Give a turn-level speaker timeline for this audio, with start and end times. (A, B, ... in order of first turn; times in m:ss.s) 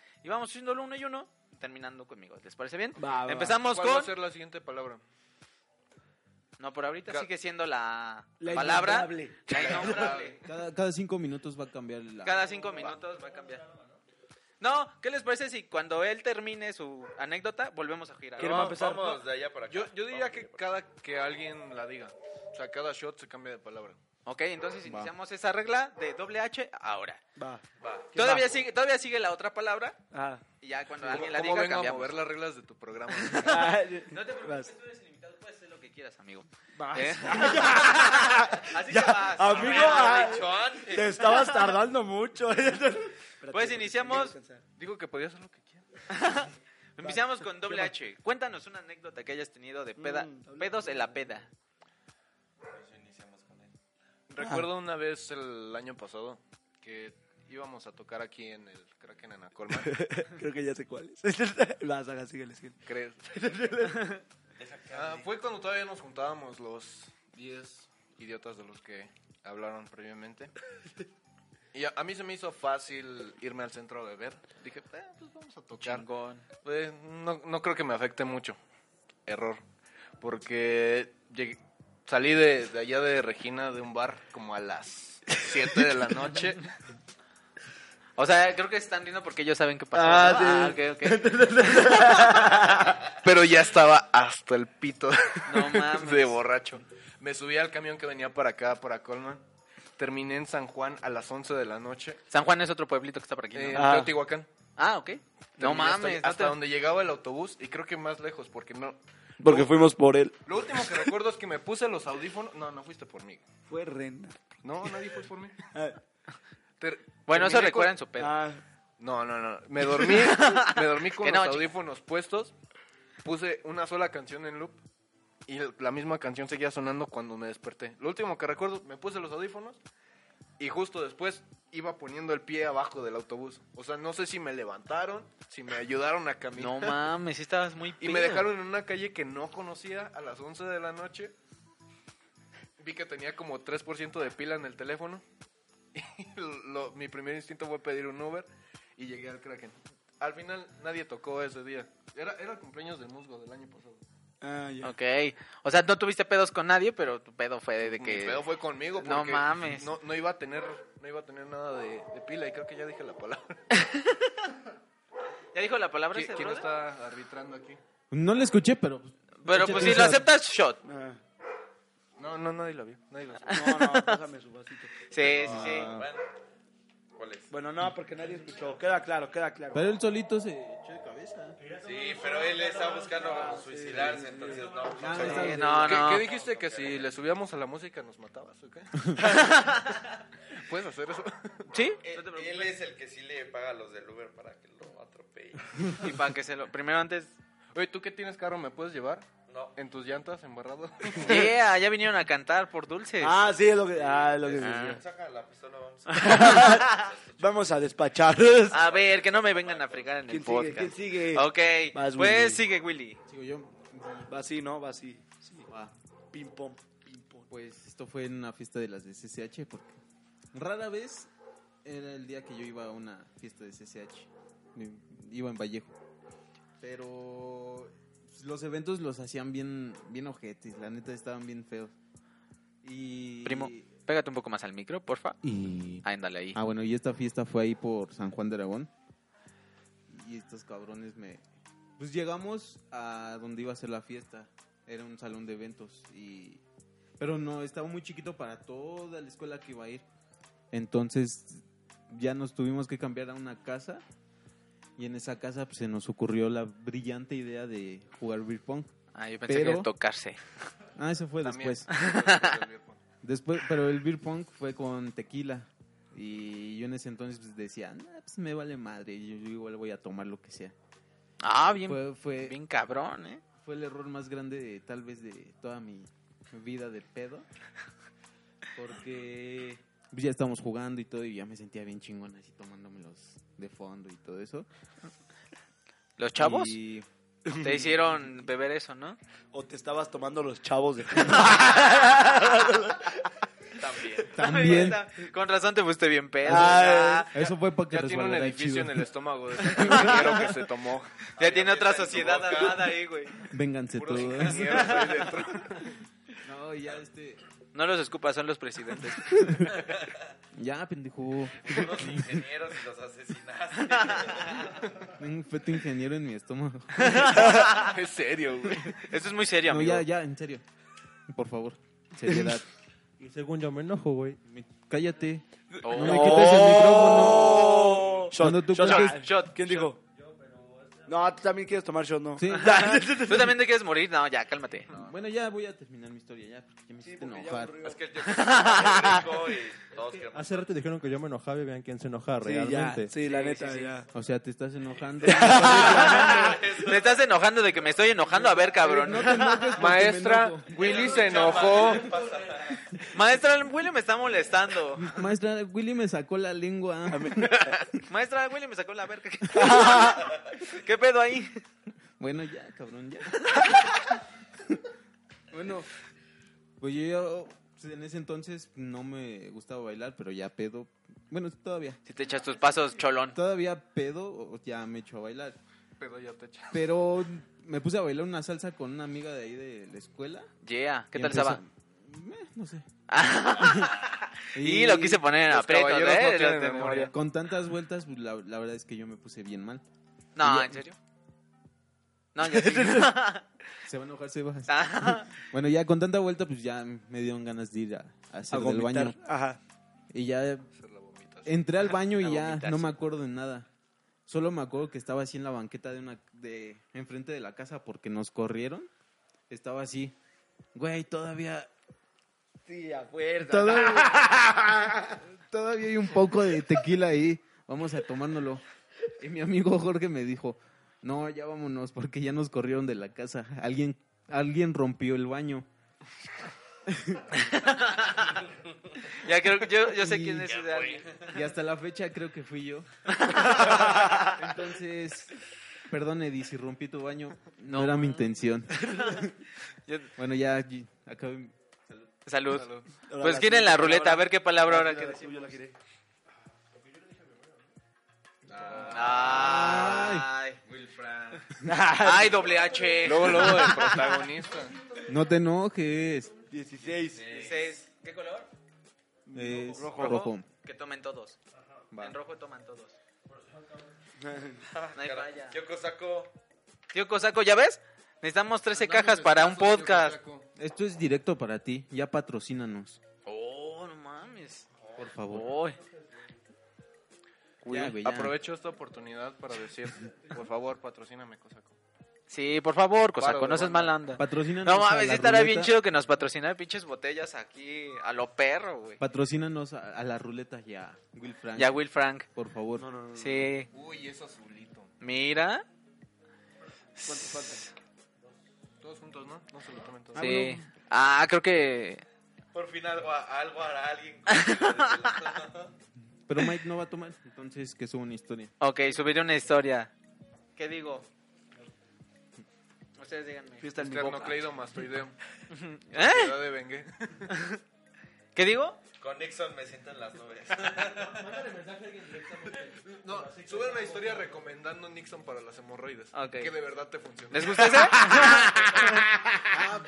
0:00.2-0:04.1 A
0:03.0-0:03.6 B
0:03.6-0:05.0 C
0:06.6-0:10.4 A
0:08.4-0:10.1 B
0:09.5-0:10.5 C
0:10.4-0:12.5 D
0:12.2-0:13.6 A
0:14.6-0:18.7 A
0:18.4-0:19.2 B
0:18.4-0:20.7 E
0:18.4-0:24.0 C
0:24.2-0:27.2 A
0:24.8-0:25.1 D
0:27.4-0:28.5 B
0:27.8-0:28.1 E
0:28.1-0:30.0 A
0:30.1-0:30.4 B
0:30.6-0:32.2 A
0:31.0-0:33.7 C
0:33.2-0:40.4 A
0:33.4-0:34.7 B
0:36.8-0:44.6 B
0:39.5-0:41.4 E
0:43.5-0:44.4 A
0:44.8-0:45.8 C
0:46.1-0:51.5 A
0:47.0-0:47.9 B
0:50.0-0:51.3 B
0:52.7-0:53.7 E
0:54.3-1:00.0 C
0:54.4-0:54.7 B
0:59.8-1:04.2 B
1:02.8-1:03.3 C
1:04.6-1:05.3 E
1:04.9-1:10.5 C
1:11.7-1:16.0 C
1:15.8-1:16.4 A
1:16.6-1:18.6 C
1:19.2-1:19.6 C
1:20.2-1:26.7 C
1:28.2-1:32.4 A
1:29.9-1:33.0 B
1:33.2-1:39.4 C
1:35.5-1:36.4 A
1:40.0-1:42.2 C
1:42.3-1:44.0 A
1:43.5-1:44.5 C
1:43.7-1:44.1 B
1:44.8-1:46.6 A
1:45.6-1:49.7 C
1:49.4-1:51.0 B
1:50.4-1:53.4 C
1:53.7-1:54.4 B
1:54.6-1:55.6 C
1:55.7-1:56.0 B
1:56.8-1:58.0 C
1:57.3-1:58.3 A
1:58.2-1:58.6 B
1:59.0-2:02.5 C
2:00.1-2:01.7 A
2:03.2-2:04.8 C
2:05.5-2:09.8 C
2:10.6-2:17.1 C
2:16.6-2:18.5 A
2:18.0-2:21.3 C
2:22.8-2:25.2 C
2:25.9-2:34.0 C
2:34.4-2:34.9 B
2:34.8-2:38.4 A
2:37.8-2:43.6 C
2:39.0-2:39.9 A
2:43.7-2:44.5 A
2:45.5-2:46.7 A
2:46.1-2:47.8 C
2:48.1-2:50.3 D
2:49.4-2:50.8 A
2:50.8-2:51.2 B
2:52.2-2:53.6 C
2:53.5-2:54.2 A
2:53.5-2:54.9 B
2:55.1-2:55.9 A
2:55.4-2:56.2 E
2:55.5-2:56.0 D
2:57.2-2:57.5 E
2:57.5-2:59.9 B
2:59.7-3:01.6 D
3:01.7-3:07.1 E
3:03.6-3:05.0 B
3:05.0-3:06.0 D
3:05.1-3:06.2 A
3:05.6-3:09.8 C
3:09.2-3:10.0 A
3:10.5-3:11.7 C
3:11.7-3:12.8 A
3:12.0-3:16.1 E
3:16.0-3:17.4 A
3:17.7-3:19.2 C
3:19.5-3:19.8 E
3:19.8-3:21.5 C
3:21.2-3:23.4 A
3:21.2-3:21.5 B
3:23.2-3:25.0 B
3:23.9-3:27.7 E
3:24.6-3:25.0 A
3:26.1-3:28.8 B
3:26.3-3:27.0 A
3:28.7-3:33.2 A
3:28.7-3:30.2 E
3:30.3-3:32.6 B
3:33.3-3:34.3 D
3:34.3-3:35.7 B
3:35.7-3:35.9 D
3:36.3-3:37.5 B
3:37.5-3:40.0 D
3:40.5-3:41.3 D
3:41.8-3:45.9 D
3:46.8-3:51.9 D
3:52.8-3:53.9 D
3:53.4-3:55.4 A
3:55.4-3:58.9 D
3:56.0-3:56.6 A
4:00.1-4:01.4 D
4:02.0-4:06.6 D
4:07.2-4:10.0 D
4:10.7-4:14.0 D
4:15.0-4:18.9 D
4:19.1-4:20.4 A
4:19.5-4:19.9 D
4:21.0-4:21.9 D
4:21.4-4:23.0 C
4:21.9-4:22.6 A
4:23.2-4:30.7 D
4:31.4-4:33.4 A
4:31.8-4:32.6 D
4:33.6-4:37.4 D
4:38.8-4:44.7 D
4:46.2-4:46.7 A
4:46.4-4:47.1 D
4:47.4-4:48.0 B
4:47.6-4:49.2 A
4:49.5-4:53.3 B
4:53.8-4:54.4 E
4:54.3-4:55.0 D
4:54.3-4:57.3 A
4:56.4-4:57.3 B
4:56.5-4:59.1 D
4:57.9-5:01.1 C
5:01.4-5:03.0 E
5:01.4-5:03.4 A
5:03.5-5:05.0 D
5:03.9-5:05.4 E
5:04.1-5:05.9 C
5:04.7-5:05.2 A
5:06.4-5:07.4 D
5:07.7-5:09.4 A
5:09.2-5:09.8 D
5:09.8-5:10.1 E
5:10.6-5:12.4 D
5:11.6-5:14.9 E
5:13.9-5:14.4 A
5:15.1-5:17.2 D
5:17.0-5:17.9 A
5:17.1-5:19.1 C
5:19.0-5:20.0 A
5:19.6-5:20.6 D
5:21.3-5:22.6 D
5:22.2-5:22.5 B
5:23.2-5:24.4 F
5:24.4-5:29.2 D
5:25.8-5:28.1 A
5:25.9-5:30.0 B
5:28.8-5:29.9 A
5:29.8-5:31.3 F
5:31.1-5:33.6 B
5:32.4-5:33.0 D
5:32.6-5:34.9 A
5:34.9-5:37.8 D
5:37.0-5:38.0 B
5:37.8-5:40.7 E
5:38.2-5:39.2 A
5:40.0-5:43.1 F
5:42.4-5:44.1 B
5:43.2-5:43.9 A
5:44.1-5:46.6 D
5:45.2-5:46.6 B
5:45.3-5:47.2 E
5:45.7-5:49.7 A
5:48.3-5:51.0 D
5:49.7-5:52.3 C
5:50.7-5:52.9 E
5:53.1-5:55.2 A
5:55.0-5:57.7 D
5:57.1-5:57.8 B
5:58.0-6:01.6 A
5:59.5-6:00.4 B
6:02.2-6:03.9 D
6:05.5-6:05.9 D
6:06.8-6:12.0 D
6:12.0-6:13.4 A
6:13.3-6:15.6 D
6:16.0-6:16.8 C
6:16.7-6:20.5 D
6:20.6-6:21.6 A
6:21.1-6:22.8 D
6:23.1-6:27.1 A
6:24.5-6:25.2 D
6:25.5-6:27.1 C
6:27.1-6:29.8 D
6:30.4-6:31.0 A
6:30.4-6:30.8 D
6:32.3-6:33.4 A
6:32.4-6:33.1 B
6:33.9-6:39.2 D
6:34.7-6:35.3 A
6:38.5-6:39.6 B
6:40.1-6:40.7 D
6:40.7-6:41.9 C
6:41.4-6:43.7 D
6:42.2-6:42.9 A
6:44.2-6:48.9 D
6:49.5-6:50.1 D
6:50.7-6:51.7 D
6:52.6-6:55.2 B
6:53.4-6:54.2 D
6:55.4-6:58.6 D
6:59.2-7:05.7 D
7:06.9-7:07.4 D
7:07.3-7:08.5 A
7:09.0-7:11.3 A
7:09.9-7:10.5 D
7:10.4-7:11.3 E
7:11.2-7:12.9 D
7:13.1-7:13.9 A
7:13.6-7:14.3 B
7:13.6-7:15.3 D
7:15.9-7:18.8 D
7:17.7-7:18.2 A
7:18.8-7:19.3 B
7:20.2-7:22.1 D
7:22.2-7:25.6 A
7:22.5-7:22.9 C
7:23.1-7:25.7 B
7:26.7-7:27.7 F
7:28.4-7:29.6 E
7:28.6-7:30.3 D
7:28.8-7:30.6 A
7:30.6-7:31.5 E
7:31.6-7:32.6 B
7:32.0-7:34.2 A
7:33.0-7:34.8 C
7:35.1-7:36.3 D
7:36.5-7:37.6 B
7:36.9-7:37.7 E
7:37.3-7:38.5 A
7:39.3-7:39.8 C
7:39.3-7:40.5 D
7:39.7-7:40.2 B
7:39.8-7:41.4 A
7:41.9-7:42.2 D
7:42.0-7:43.0 A
7:43.4-7:43.8 F
7:44.2-7:44.6 B
7:44.7-7:46.3 E
7:44.9-7:45.6 A
7:46.9-7:50.2 A
7:48.7-7:50.5 C
7:50.6-7:53.0 D
7:53.2-7:54.6 A
7:54.8-7:55.1 E
7:55.0-7:55.5 D
7:55.3-7:55.8 A
7:57.6-7:57.9 A
7:57.7-7:58.3 D
7:57.8-8:01.7 C
8:02.3-8:09.0 A
8:03.2-8:04.0 C
8:04.2-8:05.7 D
8:09.0-8:11.8 D
8:11.6-8:12.3 A
8:12.3-8:12.9 D
8:12.8-8:13.5 B
8:13.1-8:13.7 A
8:13.7-8:14.9 C
8:15.0-8:15.6 A
8:17.0-8:17.7 A
8:17.0-8:17.6 B
8:18.8-8:20.4 C
8:20.1-8:20.7 D
8:20.2-8:22.0 A
8:22.5-8:25.7 E
8:24.3-8:24.6 A
8:26.3-8:28.5 D
8:28.6-8:29.9 A
8:30.6-8:31.1 A
8:33.0-8:33.6 A
8:33.6-8:34.5 B
8:33.8-8:35.1 C
8:35.5-8:36.4 A
8:35.9-8:37.3 C
8:37.3-8:37.6 A
8:38.3-8:38.8 A
8:39.0-8:41.3 E
8:40.9-8:44.4 F
8:42.8-8:48.1 C
8:46.1-8:46.5 A
8:47.3-8:48.6 A
8:47.7-8:49.6 B